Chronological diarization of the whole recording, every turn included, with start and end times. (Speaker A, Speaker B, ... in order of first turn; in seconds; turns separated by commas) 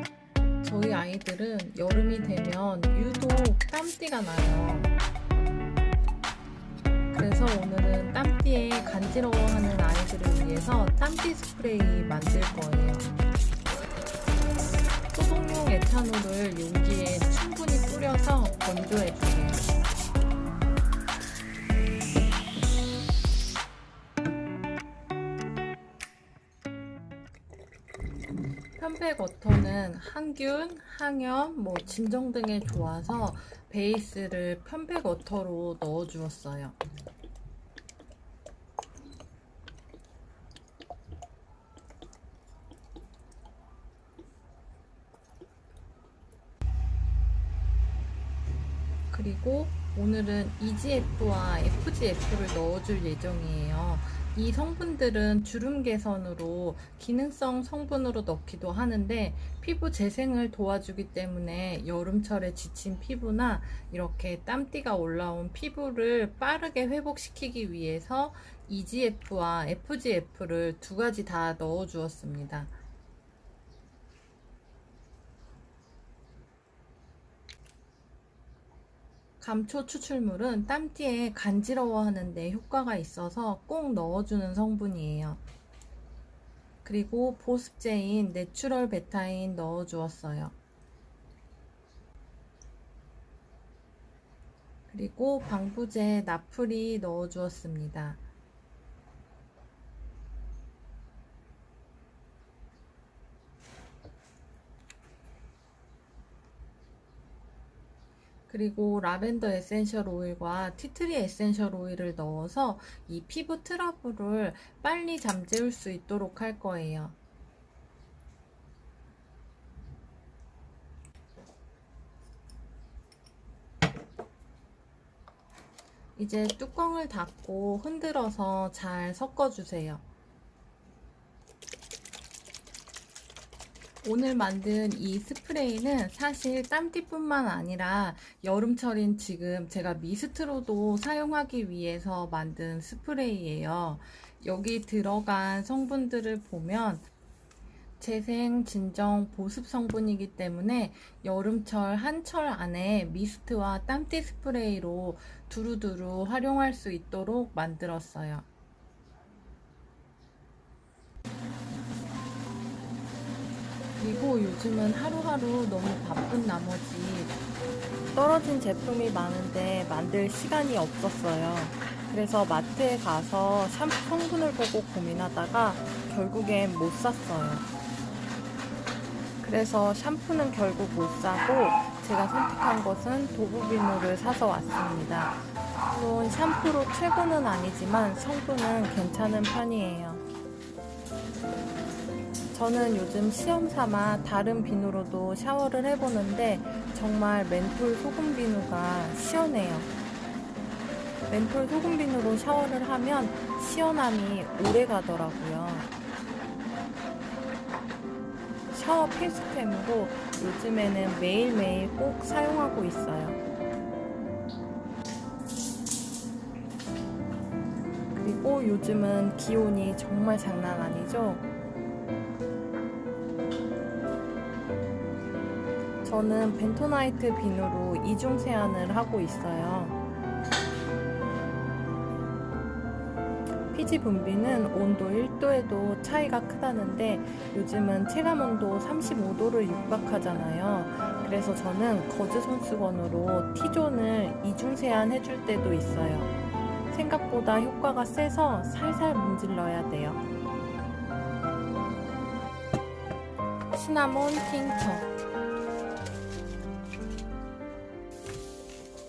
Speaker A: 0.6-4.9, Speaker A: 7.1-13.1, Speaker A: 15.1-19.6, Speaker A: 28.8-36.8, Speaker A: 49.1-72.7, Speaker A: 79.4-85.4, Speaker A: 86.8-90.5, Speaker A: 94.9-98.2, Speaker A: 108.5-117.2, Speaker A: 126.2-130.0, Speaker A: 134.0-147.1, Speaker A: 148.0-158.5, Speaker A: 164.0-167.3, Speaker A: 168.1-177.7, Speaker A: 179.4-190.2, Speaker A: 192.5-199.9, Speaker A: 201.3-205.9, Speaker A: 208.7-213.4, Speaker A: 218.2-221.4, Speaker A: 226.0-230.0, Speaker A: 233.7-246.3, Speaker A: 246.9-250.2, Speaker A: 253.7-255.1